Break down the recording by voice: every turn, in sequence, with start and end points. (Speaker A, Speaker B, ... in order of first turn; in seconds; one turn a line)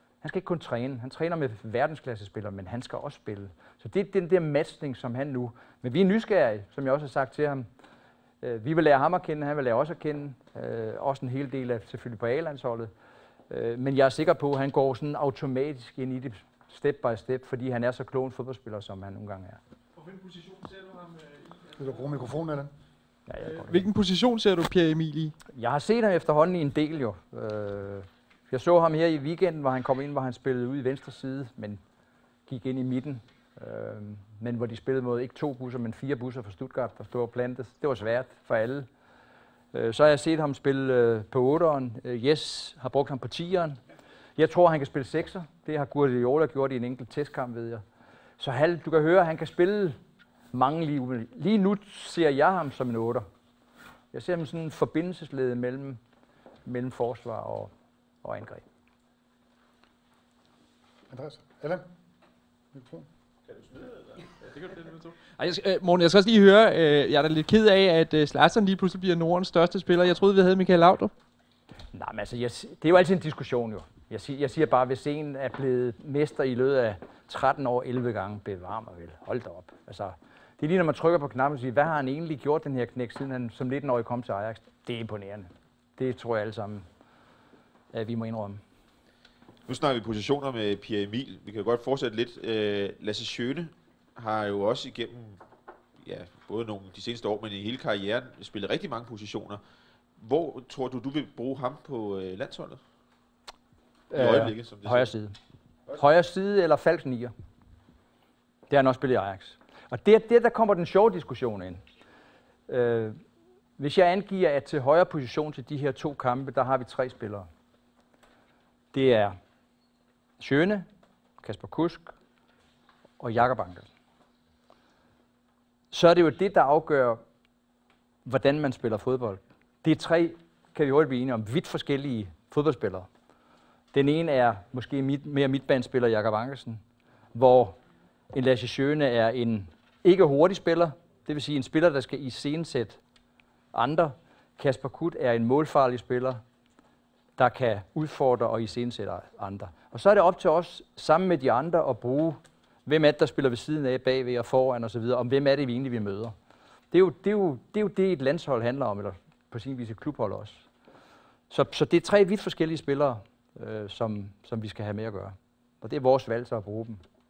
Speaker A: 0.2-7.7
Speaker A: 8.4-12.9
Speaker A: 13.5-19.6
Speaker B: 19.9-22.3
Speaker C: 21.8-22.7
Speaker A: 23.3-23.9
Speaker B: 23.4-25.4
Speaker A: 25.5-31.8
Speaker A: 32.5-38.9
Speaker A: 39.7-43.8
Speaker A: 44.4-47.8
Speaker A: 48.4-50.0
Speaker A: 50.5-53.2
Speaker A: 54.1-56.0
Speaker A: 56.6-57.7
Speaker A: 58.2-58.6
Speaker C: 61.1-61.9
Speaker C: 62.7-63.1
Speaker D: 63.5-64.1
Speaker B: 64.3-71.1
Speaker A: 71.9-86.8
Speaker A: 87.9-88.6
Speaker D: 89.7-95.4
Speaker D: 96.0-99.6
Speaker D: 100.2-102.8
Speaker A: 104.1-105.3
Speaker D: 104.1-105.1
Speaker A: 105.9-107.3
Speaker A: 108.7-111.8
Speaker A: 112.7-113.2
Speaker A: 113.8-117.5
Speaker A: 118.9-119.4
Speaker A: 120.4-120.9
Speaker A: 121.4-122.1
Speaker A: 123.2-123.9
Speaker A: 125.9-127.2
Speaker A: 128.2-133.1
Speaker A: 133.9-136.8
Speaker A: 137.3-137.8
Speaker A: 138.3-143.0
Speaker A: 143.7-146.4
Speaker A: 147.4-156.3
Speaker A: 156.9-160.7
Speaker A: 161.5-167.0